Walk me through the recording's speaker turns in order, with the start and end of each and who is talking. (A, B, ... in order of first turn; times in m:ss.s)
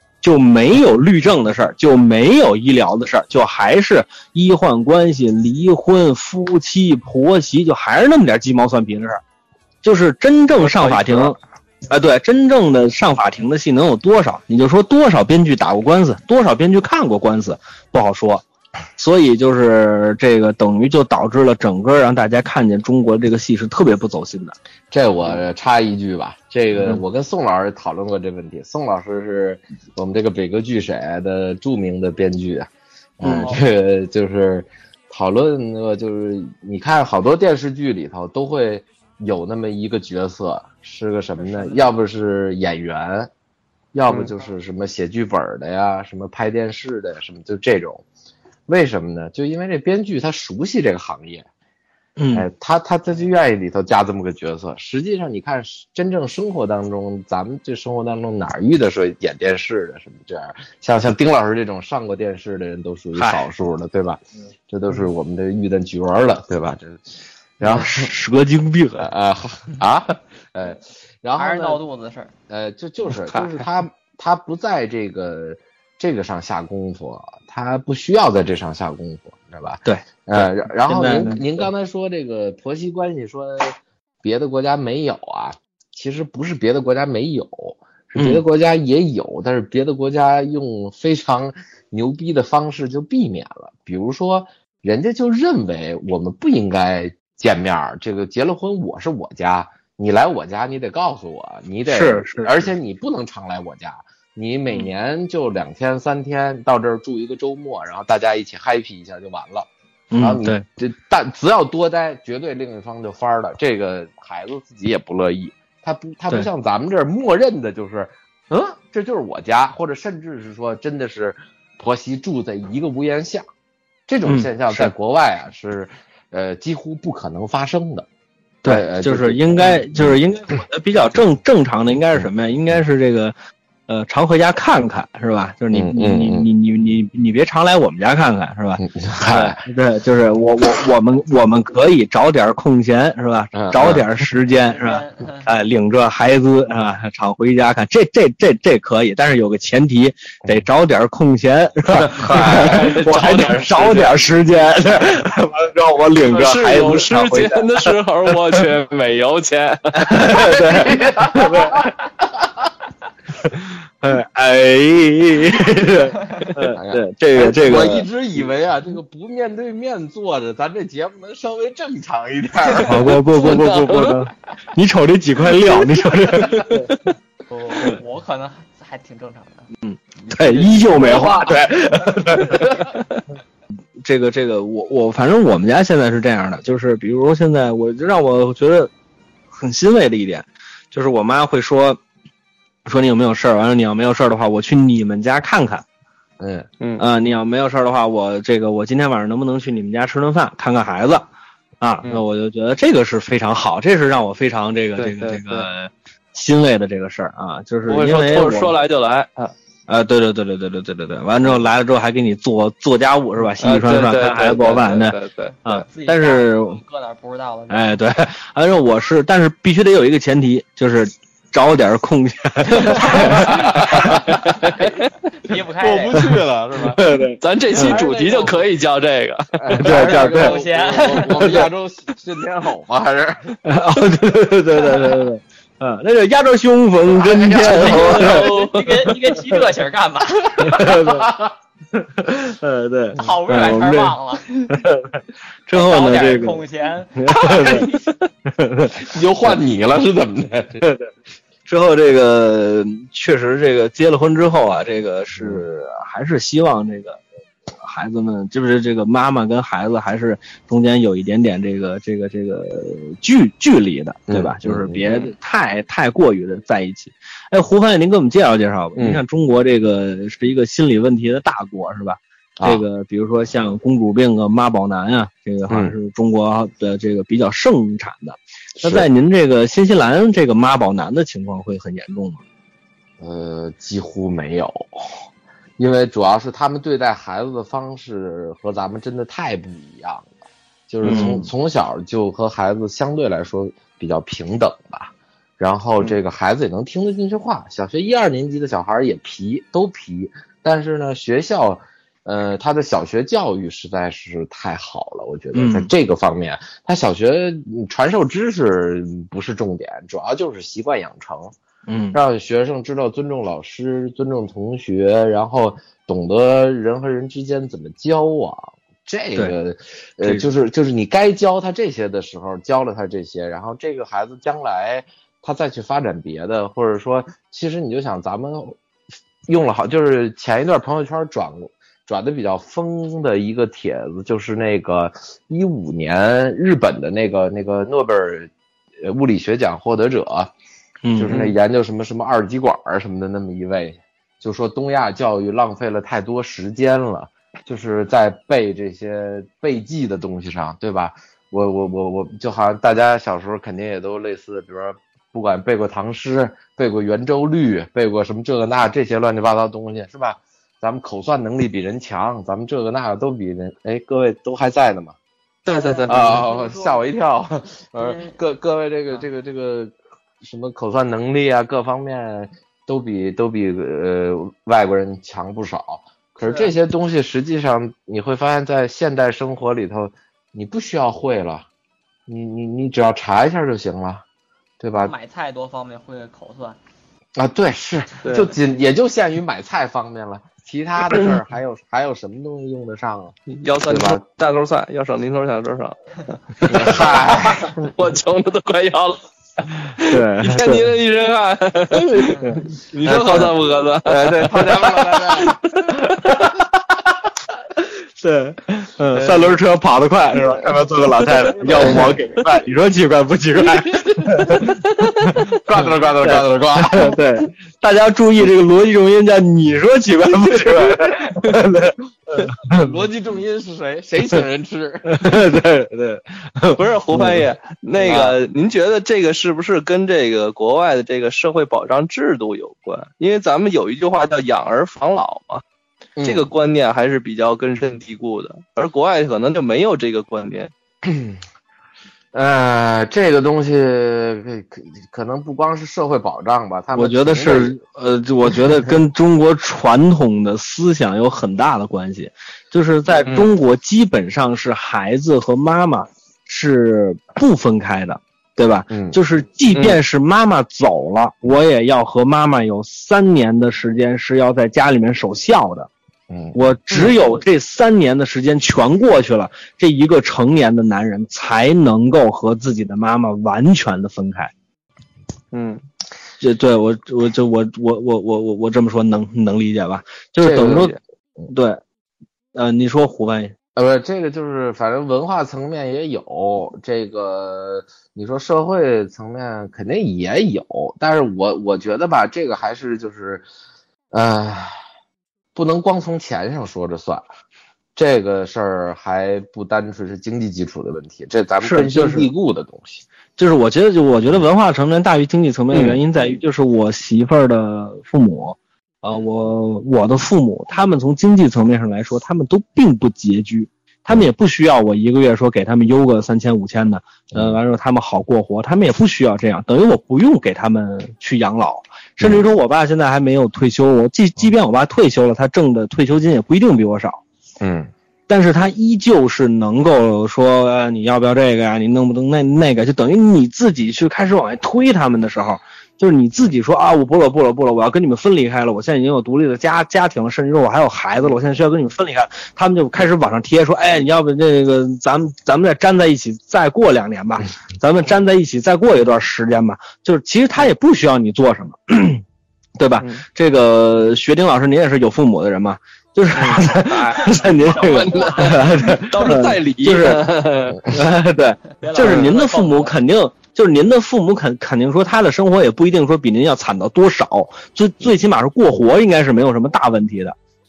0:00.2-0:09.2 A
0:09.8-0:11.4 A
0:10.6-0:11.4 B
0:11.9-0:18.4 A
0:19.0-0:24.5 A
0:24.9-0:43.3 C
0:33.2-0:33.6 A
0:41.5-0:41.8 D
0:43.9-0:48.0 C
0:48.7-0:51.4 C
0:52.2-0:52.5 A
0:52.3-1:07.0 C
1:03.1-1:03.4 A
1:07.6-1:08.1 C
1:07.6-1:09.1 A
1:09.0-1:11.8 C
1:11.4-1:12.3 D
1:12.5-2:03.4 C
1:19.8-1:21.6 A
1:28.2-1:28.4 A
1:41.9-1:42.7 A
1:50.1-1:50.6 A
2:04.1-2:08.0 C
2:04.2-2:04.9 A
2:08.6-2:10.2 C
2:08.6-2:13.3 A
2:13.9-2:37.5 A
2:15.7-2:16.5 C
2:18.8-2:19.6 C
2:23.5-2:24.0 C
2:24.7-2:25.4 D
2:31.9-2:32.9 C
2:32.3-2:34.3 B
2:36.3-2:40.2 B
2:40.0-2:41.9 A
2:40.2-2:41.9 C
2:43.4-2:48.1 A
2:46.7-2:53.1 C
2:52.8-2:56.9 A
2:53.3-2:54.2 B
2:56.3-2:57.0 B
2:57.7-2:59.7 D
2:59.8-3:02.8 A
3:00.2-3:01.7 C
3:02.6-3:03.2 B
3:04.0-3:08.9 A
3:09.5-3:12.0 A
3:12.8-3:15.8 A
3:16.4-3:16.7 C
3:17.0-3:21.3 A
3:21.8-3:28.8 A
3:25.0-3:25.7 B
3:27.8-3:29.5 B
3:29.9-3:36.8 A
3:33.6-3:35.6 B
3:35.6-3:37.9 D
3:37.7-3:44.0 A
3:43.0-3:45.1 B
3:43.0-3:43.3 D
3:43.6-3:44.1 C
3:45.4-3:46.4 D
3:45.8-3:47.0 C
3:46.8-3:48.0 A
3:47.4-3:50.3 B
3:47.8-3:48.1 C
3:47.9-3:48.5 D
3:49.6-3:53.5 C
3:49.8-3:50.6 A
3:49.9-3:51.6 D
3:51.3-3:51.7 A
3:53.6-3:58.5 A
3:57.1-3:58.4 C
3:57.5-4:00.9 D
3:57.9-3:59.1 B
4:00.5-4:01.5 C
4:00.6-4:01.3 A
4:01.9-4:04.2 A
4:03.1-4:04.8 D
4:04.7-4:06.6 A
4:05.7-4:07.9 D
4:07.2-4:07.9 A
4:07.3-4:08.1 B
4:08.4-4:09.5 A
4:09.0-4:10.8 C
4:10.8-4:11.1 A
4:11.6-4:17.2 A
4:15.4-4:15.6 C
4:17.8-4:42.4 A
4:24.3-4:25.0 C
4:29.0-4:29.2 C
4:32.6-4:32.8 C
4:35.7-4:35.9 C
4:38.8-4:39.1 C
4:43.2-4:45.1 C
4:45.8-4:50.3 C
4:50.9-5:11.5 C
4:51.0-4:51.5 A
5:05.5-5:05.9 A
5:11.9-5:12.2 A
5:12.1-5:28.8 C
5:20.2-5:20.5 A
5:29.5-5:40.5 C
5:41.0-5:41.5 A
5:41.2-6:05.2 C
6:05.6-6:06.5 B
6:05.7-6:07.0 D
6:06.1-6:21.6 C
6:08.0-6:08.3 D
6:16.4-6:16.7 D
6:22.3-6:24.2 C
6:24.8-6:25.1 C
6:24.9-6:26.8 D
6:27.4-6:34.2 C
6:28.2-6:28.5 B
6:33.5-6:36.0 B
6:36.6-6:39.2 B
6:36.6-6:37.7 C
6:39.8-6:46.4 B
6:40.0-6:40.9 A
6:43.0-6:45.6 C
6:48.2-6:55.4 A
6:51.5-6:52.2 C
6:53.8-6:54.3 C
6:55.6-6:57.2 C
6:56.2-7:02.9 A
7:02.7-7:05.2 C
7:05.1-7:07.4 A
7:06.8-7:15.6 B
7:08.1-7:08.3 C
7:16.2-7:16.4 C
7:16.2-7:20.7 B
7:21.0-7:21.4 C
7:22.3-7:27.8 C
7:26.9-7:45.9 A
7:33.2-7:33.5 B
7:38.9-7:39.2 C
7:39.7-7:40.0 B
7:46.3-7:47.1 C
7:46.5-7:54.5 A
7:55.5-7:55.8 B
7:56.4-8:01.0 A
8:00.4-8:00.9 C
8:01.5-8:01.8 A
8:02.5-8:03.5 A
8:03.8-8:13.4 C
8:14.1-8:14.7 C
8:15.5-8:17.3 C
8:18.0-8:23.0 C
8:21.6-8:22.3 A
8:23.4-8:47.2 A
8:37.3-8:37.6 C
8:42.2-8:42.5 C
8:47.6-8:47.9 C
8:48.3-9:12.2 A
9:12.8-9:30.3 A
9:16.3-9:20.8 B
9:17.6-9:18.6 D
9:21.8-9:23.0 D
9:22.0-9:22.3 B